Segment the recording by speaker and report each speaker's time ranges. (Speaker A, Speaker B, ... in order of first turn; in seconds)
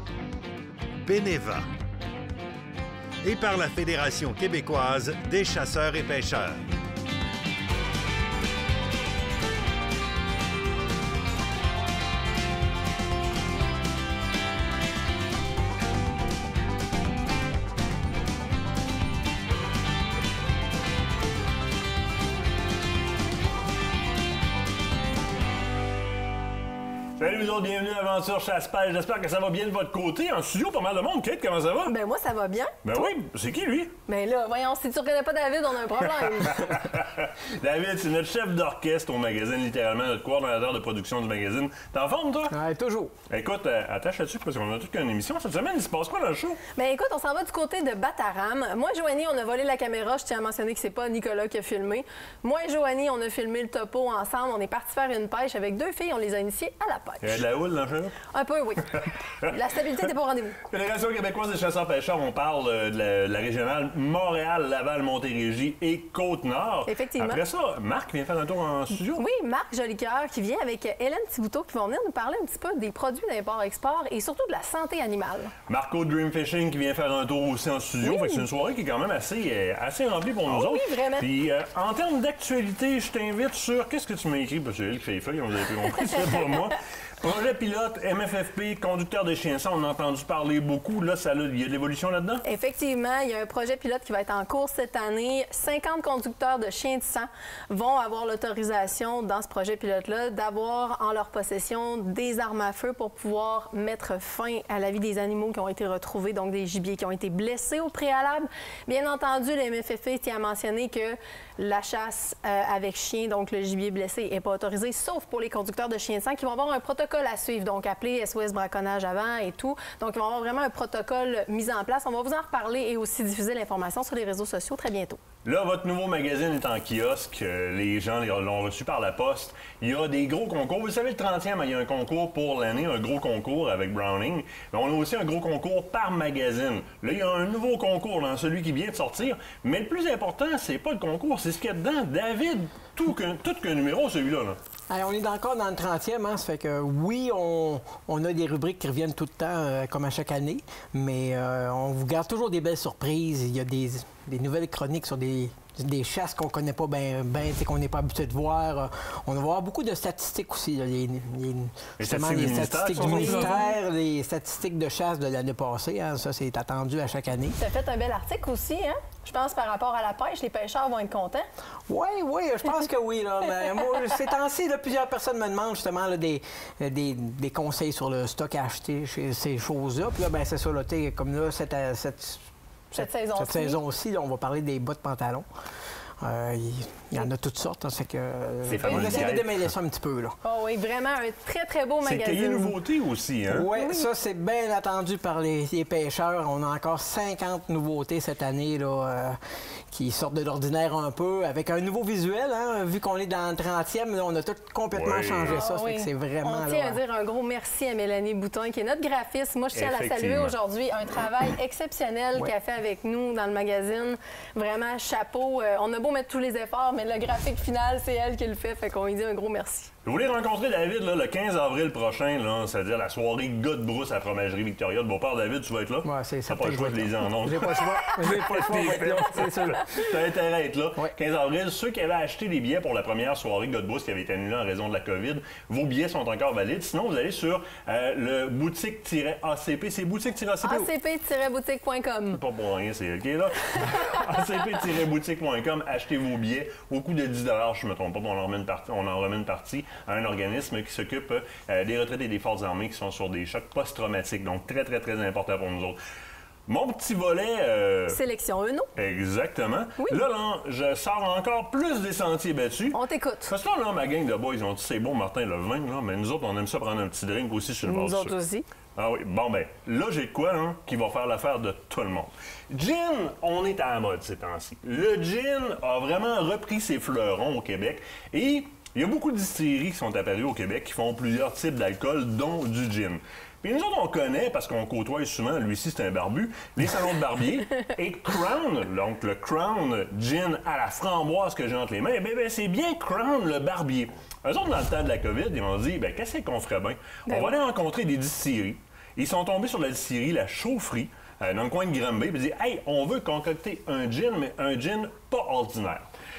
Speaker A: 1.0-1.7, 3.2-6.6
Speaker B: 27.2-31.9, 32.8-34.0, 36.4-42.5, 43.3-46.6, 57.2-58.2, 58.9-59.5, 60.7-69.2, 75.7-92.4, 125.4-144.6, 162.0-163.7, 188.7-189.7, 192.0-193.7, 204.9-205.6, 209.7-210.6, 220.0-240.9, 242.3-256.0, 256.7-258.2, 259.0-268.4, 269.0-306.1
Speaker C: 31.9-32.8, 34.1-36.7, 46.8-57.4, 58.2-60.6, 66.8-67.4, 69.2-75.5, 78.0-78.5, 80.5-81.3, 92.5-125.2, 163.3-163.5, 167.6-171.4, 182.9-183.8, 188.8-189.4, 190.4-192.7, 193.7-194.1, 205.4-219.9, 240.6-242.4, 258.1-258.9, 262.9-263.5, 267.8-268.7, 297.3-297.5
Speaker D: 42.5-43.1, 144.9-167.6, 171.9-185.5, 186.2-190.4, 193.5-199.4, 199.9-207.0, 226.0-230.1